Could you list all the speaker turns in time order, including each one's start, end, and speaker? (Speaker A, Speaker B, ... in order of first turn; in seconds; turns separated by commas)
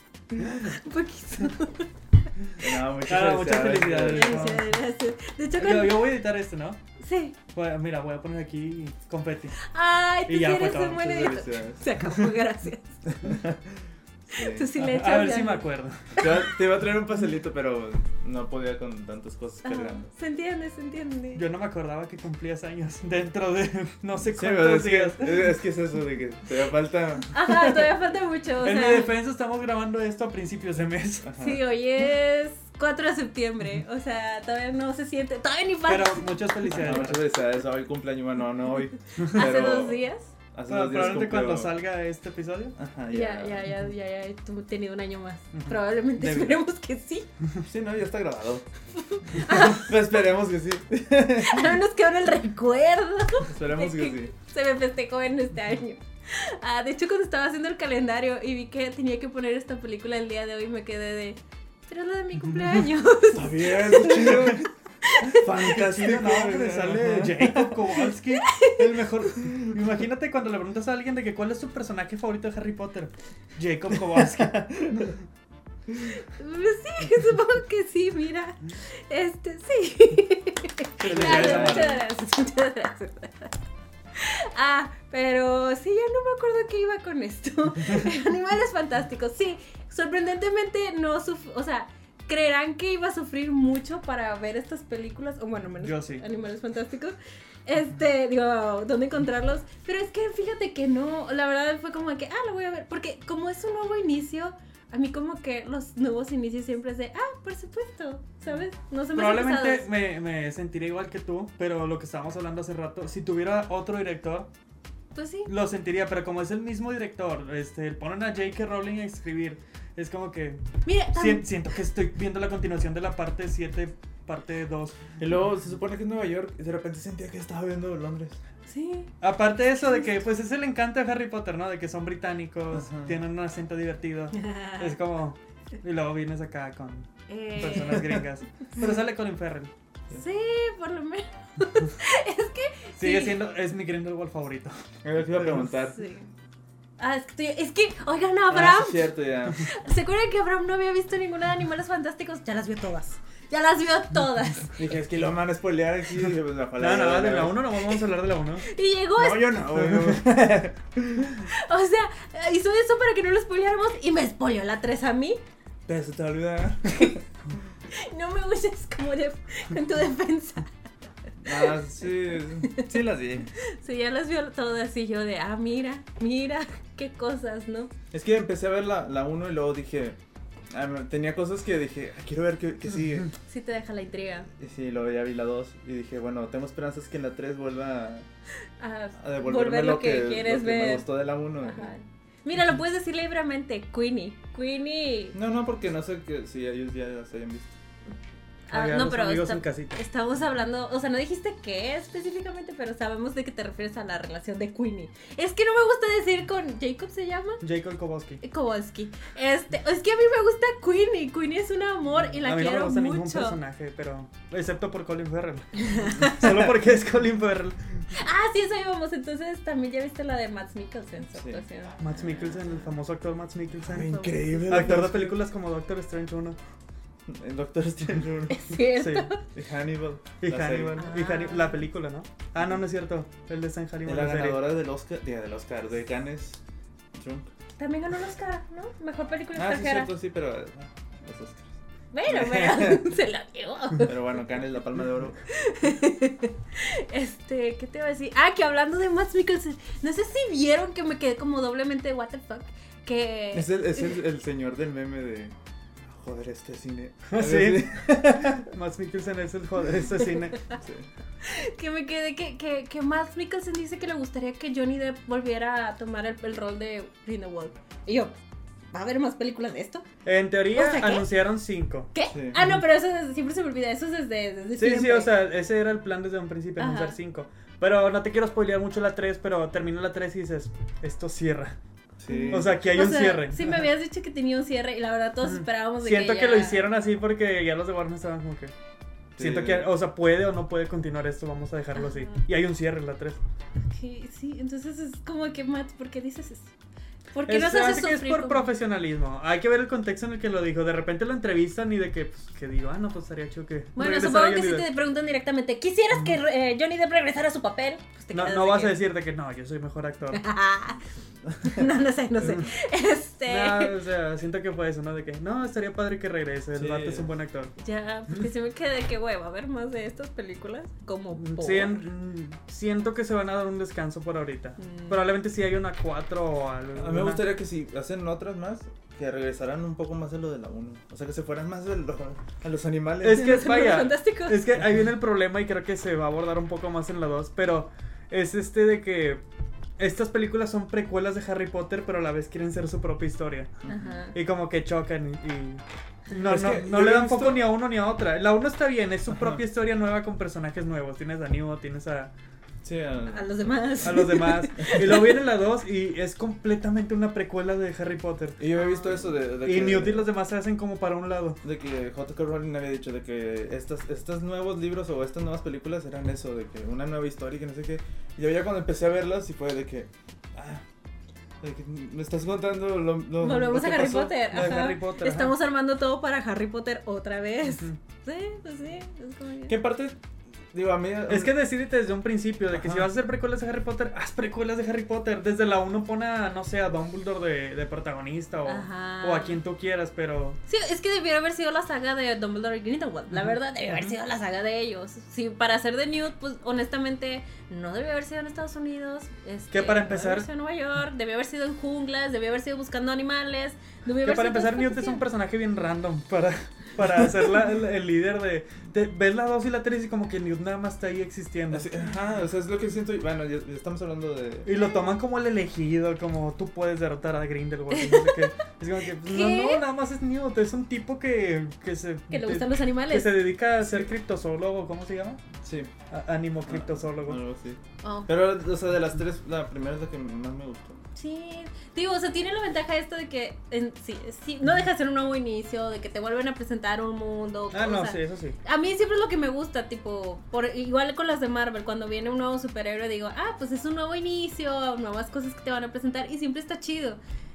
Speaker A: 0.6-1.9, Speaker B: 2.6-4.6, Speaker C: 3.0-4.8, Speaker A: 4.1-6.1, Speaker C: 5.6-6.8, Speaker A: 7.0-7.3, Speaker C: 7.5-9.6, Speaker A: 9.6-13.0, Speaker C: 10.3-11.3, Speaker B: 10.9-12.0, Speaker B: 13.1-14.7, Speaker A: 14.3-16.4, Speaker C: 14.8-16.2, Speaker B: 16.2-20.1, Speaker A: 19.6-21.4, Speaker C: 21.4-25.5, Speaker B: 24.3-27.9, Speaker A: 27.3-29.1, Speaker C: 28.6-31.3, Speaker B: 31.2-31.6, Speaker A: 31.4-36.3, Speaker C: 35.9-37.2, Speaker B: 36.7-40.0, Speaker A: 39.2-40.3, Speaker B: 40.5-41.7, Speaker C: 40.7-42.8, Speaker B: 42.8-43.7, Speaker A: 43.1-47.3, Speaker B: 46.2-46.5, Speaker B: 47.6-48.7, Speaker A: 48.9-50.0, Speaker B: 49.4-51.8, Speaker A: 51.4-64.5, Speaker B: 53.4-54.3, Speaker B: 63.3-64.7, Speaker C: 64.2-64.5, Speaker A: 65.0-65.5, Speaker B: 65.2-67.9, Speaker C: 65.3-75.2, Speaker A: 68.3-68.9, Speaker B: 69.5-69.7, Speaker B: 74.0-75.1, Speaker A: 76.0-83.5, Speaker C: 81.0-82.0, Speaker B: 81.0-82.0, Speaker A: 84.1-109.9, Speaker C: 95.8-96.2, Speaker C: 109.1-114.5, Speaker A: 115.1-115.5, Speaker C: 115.5-125.2, Speaker A: 120.8-121.5, Speaker B: 125.2-128.4, Speaker A: 128.7-129.1, Speaker C: 129.2-139.7, Speaker B: 132.7-133.2, Speaker A: 134.3-135.0, Speaker A: 137.3-138.2, Speaker A: 140.1-143.4, Speaker C: 143.0-144.7, Speaker B: 145.0-146.0, Speaker C: 145.3-145.7, Speaker A: 146.0-146.3, Speaker A: 147.0-154.8, Speaker B: 148.5-149.6, Speaker B: 154.8-157.6, Speaker C: 156.8-158.7, Speaker A: 158.7-159.6, Speaker B: 159.2-161.5, Speaker C: 159.8-160.2, Speaker A: 161.5-165.4, Speaker B: 165.9-167.2, Speaker A: 167.9-170.7, Speaker B: 171.4-173.5, Speaker A: 171.5-171.7, Speaker A: 173.6-177.9, Speaker B: 178.1-180.2, Speaker B: 180.7-183.3, Speaker A: 183.5-184.5, Speaker B: 184.6-188.3, Speaker A: 188.8-195.3, Speaker B: 189.2-191.9, Speaker B: 195.3-197.7, Speaker A: 198.7-207.6, Speaker C: 198.7-199.9, Speaker C: 207.6-208.4, Speaker A: 208.4-213.6, Speaker C: 212.4-218.1, Speaker A: 215.8-216.4, Speaker A: 218.1-222.8, Speaker B: 221.3-221.6, Speaker C: 222.0-226.6, Speaker B: 223.8-225.4, Speaker A: 224.1-224.6, Speaker B: 227.3-228.7, Speaker A: 228.5-229.4, Speaker C: 228.8-229.3, Speaker B: 229.5-231.0, Speaker C: 230.4-234.6, Speaker A: 231.0-231.8, Speaker B: 234.1-236.6, Speaker B: 237.1-237.5, Speaker A: 237.8-240.1, Speaker B: 239.5-243.1, Speaker A: 242.1-244.1, Speaker B: 244.0-245.4, Speaker A: 245.5-254.2, Speaker B: 253.5-255.5, Speaker B: 256.1-258.6, Speaker C: 257.3-260.6, Speaker B: 260.8-261.1, Speaker A: 261.4-268.4, Speaker A: 268.9-270.0, Speaker C: 270.2-272.1, Speaker A: 270.8-271.3, Speaker A: 272.1-275.3, Speaker B: 272.3-272.6, Speaker C: 274.8-281.8, Speaker A: 276.8-277.1, Speaker B: 282.2-282.8, Speaker A: 282.3-286.8, Speaker C: 282.5-283.9, Speaker C: 285.4-288.7, Speaker B: 289.4-289.9, Speaker C: 289.4-293.4, Speaker A: 292.0-292.3, Speaker A: 293.9-296.7, Speaker A: 297.3-298.7, Speaker C: 297.5-304.9, Speaker A: 304.0-309.0, Speaker C: 308.3-310.4, Speaker A: 310.3-311.0, Speaker A: 311.6-314.0, Speaker C: 312.4-312.7, Speaker C: 313.5-317.7, Speaker B: 316.7-317.3, Speaker A: 317.8-322.0, Speaker C: 321.3-327.5, Speaker A: 324.8-325.3, Speaker B: 327.0-333.7, Speaker C: 333.2-339.4, Speaker A: 333.3-334.8, Speaker C: 340.0-343.8, Speaker B: 343.8-344.1, Speaker A: 343.9-344.4, Speaker C: 344.3-352.3, Speaker B: 346.5-347.7, Speaker B: 352.8-354.3, Speaker A: 353.3-355.4, Speaker C: 354.0-358.6, Speaker B: 358.6-360.3, Speaker A: 358.8-359.2, Speaker C: 359.6-361.6, Speaker B: 361.6-370.8, Speaker B: 371.6-374.4, Speaker A: 373.4-379.8, Speaker C: 374.4-375.5, Speaker B: 379.7-380.2, Speaker B: 380.7-381.6, Speaker C: 381.3-390.6, Speaker B: 382.7-383.1, Speaker A: 388.6-389.6, Speaker A: 390.7-405.2, Speaker C: 399.7-400.5, Speaker C: 404.2-411.9, Speaker B: 411.7-414.7, Speaker C: 414.6-425.4, Speaker A: 417.9-418.5, Speaker A: 419.2-419.8, Speaker A: 422.3-423.4, Speaker B: 425.6-425.9, Speaker C: 426.1-427.4, Speaker B: 426.6-431.0, Speaker A: 428.0-428.3, Speaker A: 431.1-447.2, Speaker C: 437.7-438.6